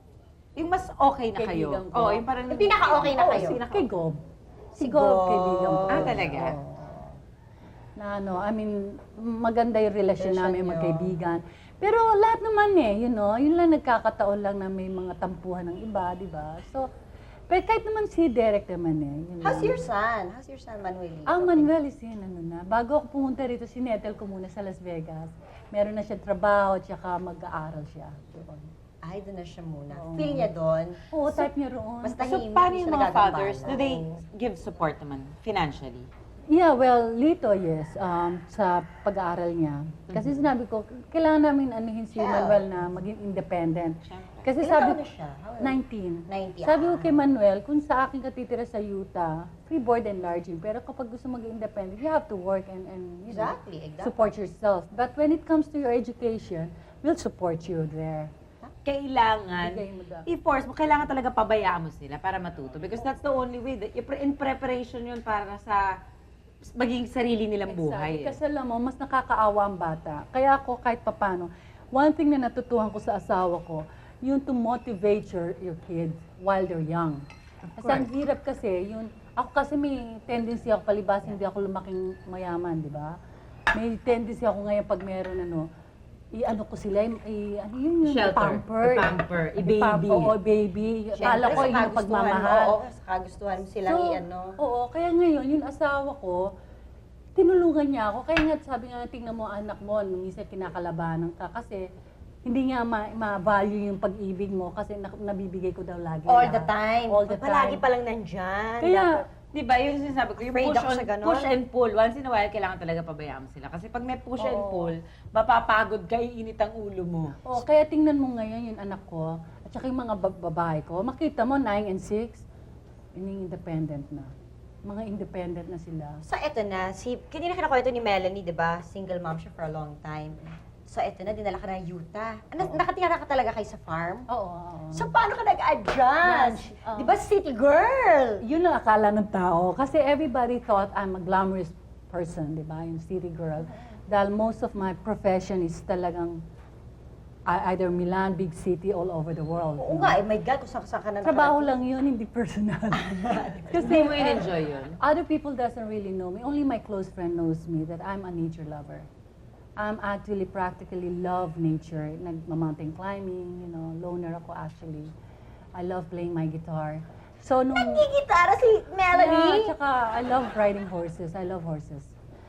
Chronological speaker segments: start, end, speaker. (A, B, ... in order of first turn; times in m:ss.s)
0:00.6-0:03.9 A
0:01.3-0:02.3 B
0:02.5-0:03.6 C
0:03.3-0:04.2 B
0:04.7-0:07.2 B
0:04.8-0:06.2 C
0:05.9-0:06.5 A
0:08.0-0:16.9 B
0:10.2-0:11.1 C
0:17.5-0:19.8 B
0:19.4-0:21.7 C
0:21.3-0:28.7 B
0:29.0-0:31.5 C
0:29.9-0:30.5 B
0:31.1-0:32.3 B
0:32.0-0:34.2 C
0:32.2-0:36.1 A
0:36.5-0:45.0 B
0:40.1-0:40.4 A
0:42.1-0:42.7 C
0:44.0-0:44.5 A
0:44.6-0:47.3 C
0:45.6-0:58.3 B
0:53.3-0:54.3 C
0:58.8-1:05.8 A
0:59.6-1:00.3 B
1:06.6-1:08.4 A
1:07.7-1:17.2 B
1:17.7-1:18.1 A
1:17.8-1:23.2 B
1:23.7-1:25.7 B
1:26.3-1:32.8 B
1:28.0-1:30.3 A
1:31.2-1:34.6 C
1:33.8-1:36.4 B
1:37.4-1:41.8 B
1:42.4-1:47.8 B
1:46.3-1:49.2 C
1:48.8-1:49.2 B
1:49.5-1:57.4 A
1:50.4-1:51.5 C
1:54.4-1:54.9 B
1:57.4-2:02.4 B
2:03.1-2:04.3 B
2:04.8-2:06.2 B
2:06.2-2:14.3 C
2:14.3-2:15.1 B
2:14.9-2:18.4 C
2:16.2-2:17.2 B
2:18.4-2:26.4 B
2:27.5-2:30.2 B
2:29.8-2:31.7 C
2:31.2-2:39.1 B
2:33.0-2:34.1 C
2:33.8-2:35.0 A
2:39.8-2:45.1 B
2:45.8-2:48.0 B
2:47.7-2:49.7 C
2:49.1-2:52.1 B